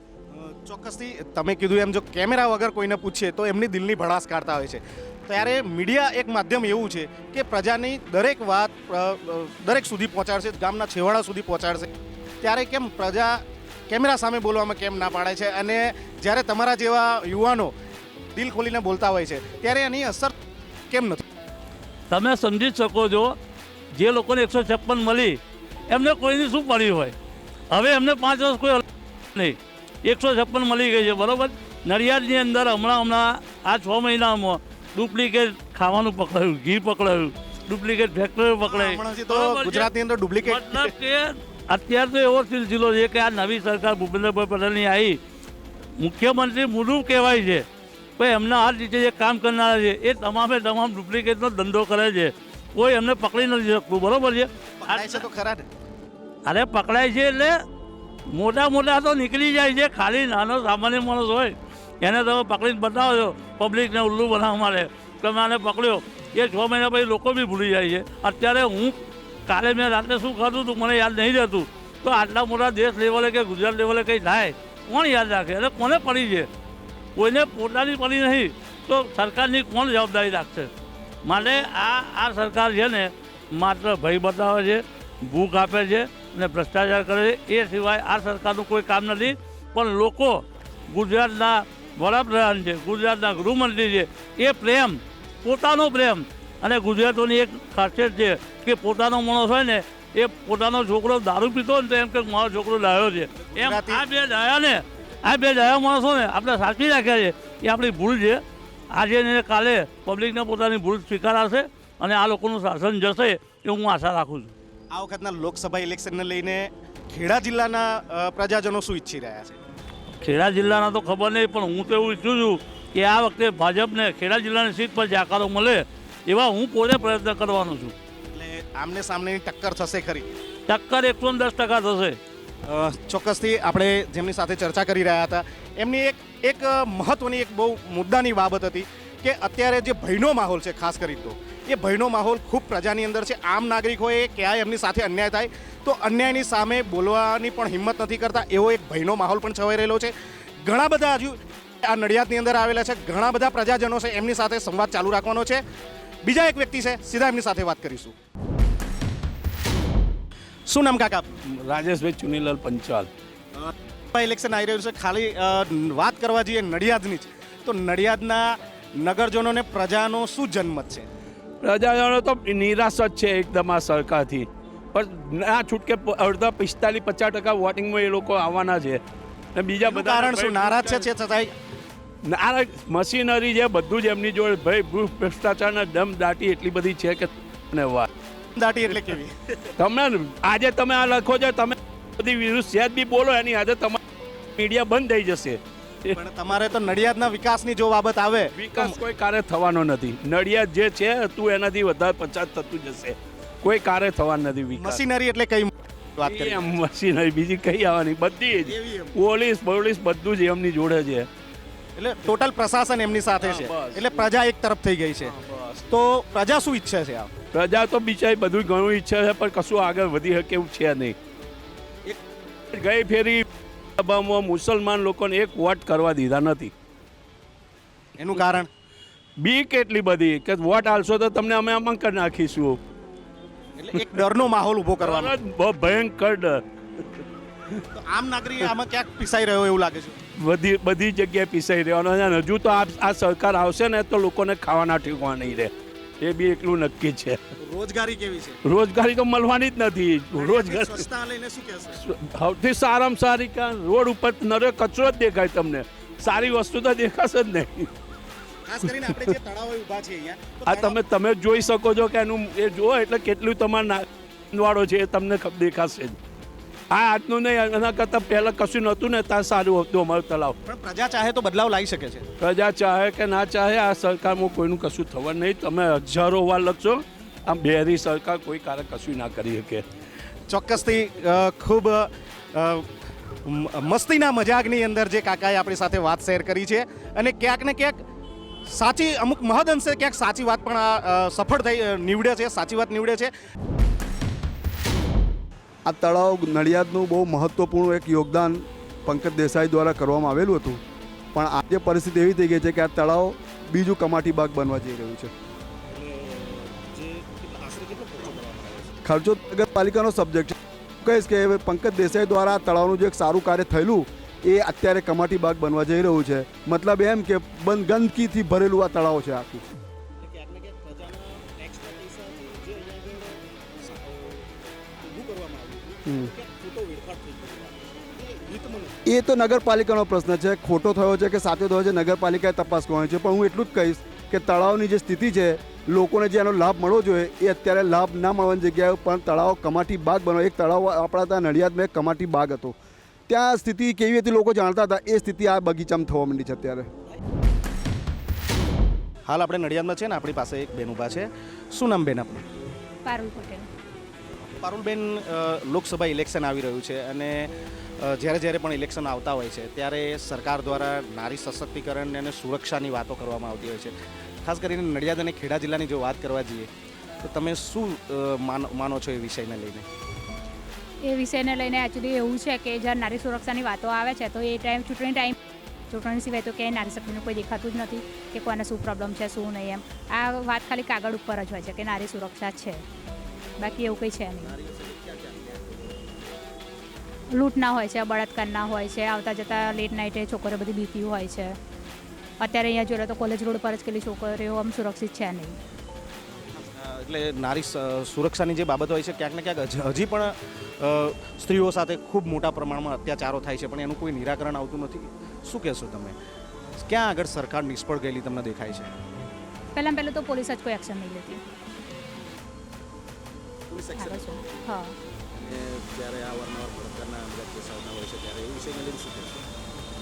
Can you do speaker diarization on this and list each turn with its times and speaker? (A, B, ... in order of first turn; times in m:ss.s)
0:00.3-0:11.9 A
0:12.4-0:17.7 A
0:18.4-0:20.3 A
0:20.9-0:21.2 A
0:22.1-0:23.4 B
0:24.0-0:25.4 B
0:25.9-0:27.1 B
0:27.7-0:28.8 B
0:29.4-0:39.9 B
0:38.7-0:40.9 A
0:40.4-0:45.2 B
0:46.0-0:47.6 B
0:48.2-0:55.3 B
0:54.8-0:55.7 A
0:56.5-0:57.6 B
0:58.3-1:16.5 B
1:17.2-1:20.7 B
1:21.2-1:48.4 B
1:43.4-1:44.0 A
1:48.9-1:54.5 B
1:54.9-1:59.6 A
2:00.2-2:07.9 B
2:08.3-2:10.4 A
2:10.7-2:12.2 B
2:12.6-2:35.6 A
2:36.2-2:38.2 A
2:40.7-2:41.4 A
2:41.5-2:43.1 C
2:43.6-2:51.1 A
2:51.6-2:59.0 C
2:59.6-3:01.1 C
2:59.8-3:01.5 A
3:02.2-3:08.1 C
3:08.6-3:09.6 A
3:09.8-3:14.0 C
3:14.6-3:16.2 C
3:16.1-3:19.0 A
3:18.6-3:25.0 C
3:24.7-3:26.8 A
3:26.2-3:31.3 C
3:28.6-3:29.2 A
3:32.0-3:35.3 A
3:33.4-3:34.3 C
3:35.2-3:35.9 C
3:35.9-3:37.3 A
3:37.5-3:41.2 C
3:42.7-3:43.5 C
3:44.0-3:46.7 C
3:48.2-3:48.7 A
3:49.4-3:52.8 C
3:53.8-3:55.4 A
3:55.0-3:57.1 C
3:57.9-4:00.2 A
4:00.4-4:07.4 C
4:07.6-4:08.6 A
4:08.6-4:11.1 C
4:10.4-4:12.0 A
4:12.0-4:17.9 C
4:18.7-4:21.0 A
4:20.7-4:26.2 C
4:26.9-4:30.6 C
4:30.7-4:32.3 A
4:32.4-4:39.8 C
4:40.5-4:42.9 A
4:43.4-4:48.0 A
4:48.7-4:53.3 A
4:55.9-5:00.8 D
5:01.3-5:05.3 D
5:05.9-5:09.0 A
5:09.0-5:19.6 D
5:20.2-5:29.0 A
5:29.1-5:42.8 D
5:43.3-5:46.9 D
5:49.3-5:52.4 A
5:53.0-5:53.7 E
5:54.6-6:03.9 A
6:04.4-6:06.7 A
6:07.2-6:09.9 A
6:11.0-6:15.4 E
6:15.9-6:22.8 E
6:23.6-6:24.5 E
6:24.4-6:26.4 A
6:27.3-6:31.6 E
6:32.4-6:35.6 E
6:36.6-6:46.2 A
6:46.8-6:48.9 A
6:49.8-6:51.4 E
6:53.7-6:54.6 A
6:54.0-6:55.0 E
6:55.3-6:59.5 A